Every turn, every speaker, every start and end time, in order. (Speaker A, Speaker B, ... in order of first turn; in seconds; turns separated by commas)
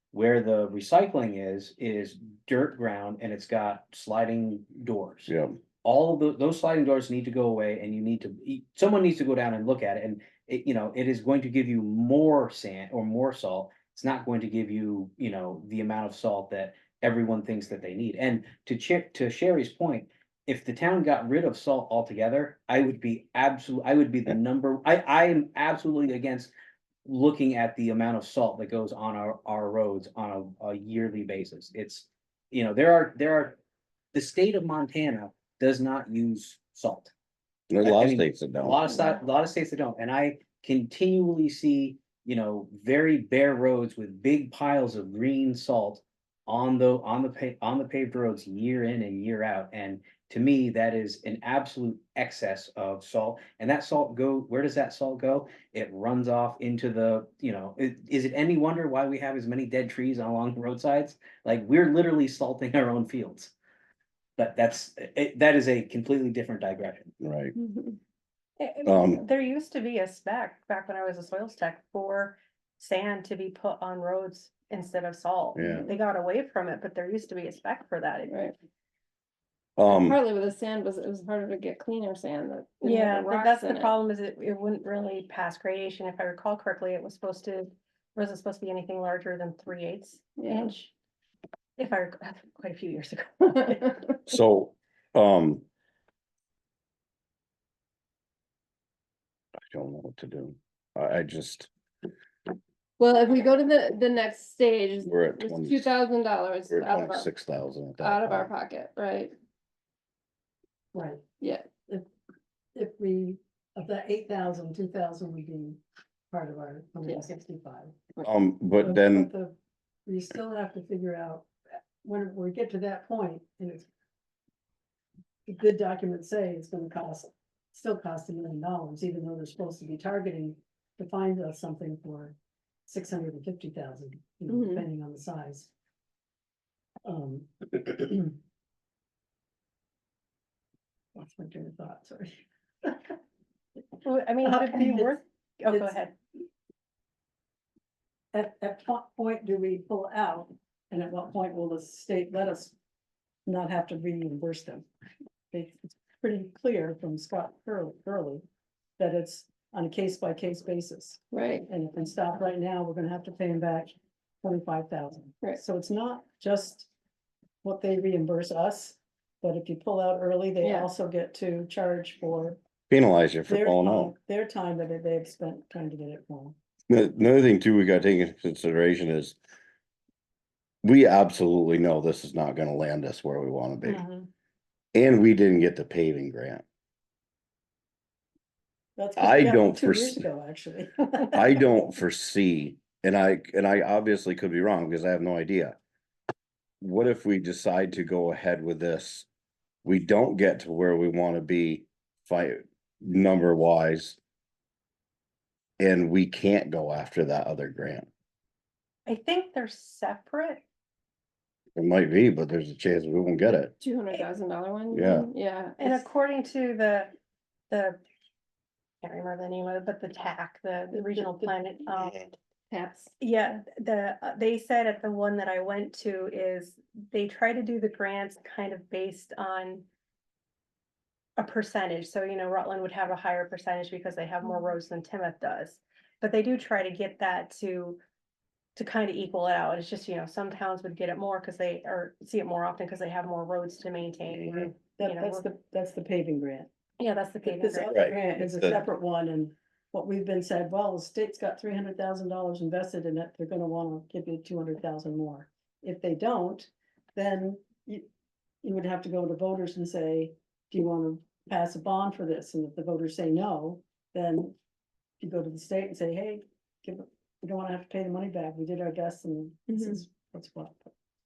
Speaker A: 0.1-26.5, Speaker B: 5.3-5.6, Speaker A: 27.1-33.6, Speaker A: 34.1-37.1, Speaker B: 37.7-38.9, Speaker A: 37.8-63.5, Speaker A: 64.4-67.1, Speaker B: 67.2-67.5, Speaker C: 67.6-68.0, Speaker D: 68.6-78.4, Speaker B: 68.8-69.2, Speaker B: 75.5-75.9, Speaker C: 75.6-75.9, Speaker C: 78.3-78.5, Speaker B: 79.8-80.2, Speaker C: 79.8-83.9, Speaker D: 82.8-90.9, Speaker C: 90.4-90.8, Speaker D: 91.8-94.0, Speaker B: 94.3-95.6, Speaker B: 99.7-101.7, Speaker C: 103.0-107.3, Speaker B: 105.0-105.9, Speaker B: 106.7-108.5, Speaker C: 108.0-109.3, Speaker E: 110.9-111.3, Speaker C: 111.4-111.7, Speaker E: 112.8-115.8, Speaker E: 116.3-118.0, Speaker C: 117.0-117.3, Speaker B: 118.2-119.3, Speaker E: 118.8-119.5, Speaker E: 120.1-121.5, Speaker E: 122.0-123.9, Speaker E: 125.5-132.3, Speaker E: 132.9-135.7, Speaker C: 134.5-134.9, Speaker E: 137.1-138.4, Speaker E: 141.2-143.1, Speaker D: 144.0-146.2, Speaker E: 144.4-145.2, Speaker E: 145.7-146.0, Speaker E: 148.3-152.7, Speaker E: 153.5-154.9, Speaker E: 155.5-158.4, Speaker E: 159.0-166.9, Speaker C: 161.3-161.7, Speaker E: 167.6-172.6, Speaker C: 170.6-170.9, Speaker B: 172.9-174.1, Speaker E: 173.5-176.6, Speaker B: 176.9-179.4, Speaker B: 180.8-184.0, Speaker B: 184.9-186.6, Speaker E: 189.0-191.6, Speaker B: 189.2-190.2, Speaker B: 191.3-195.8, Speaker B: 196.8-199.3, Speaker B: 199.8-204.2, Speaker B: 205.8-208.1, Speaker D: 209.1-210.6, Speaker B: 211.8-213.7, Speaker C: 213.8-216.1, Speaker B: 214.9-215.3, Speaker D: 215.8-217.1, Speaker D: 217.7-218.0, Speaker D: 219.0-222.2, Speaker C: 222.7-223.1, Speaker D: 223.2-229.9, Speaker D: 231.4-238.0, Speaker D: 238.8-245.5, Speaker E: 244.9-246.7, Speaker D: 247.0-248.0, Speaker E: 247.5-258.1, Speaker B: 247.9-248.8, Speaker E: 258.6-264.6, Speaker E: 265.2-270.9, Speaker C: 269.7-270.0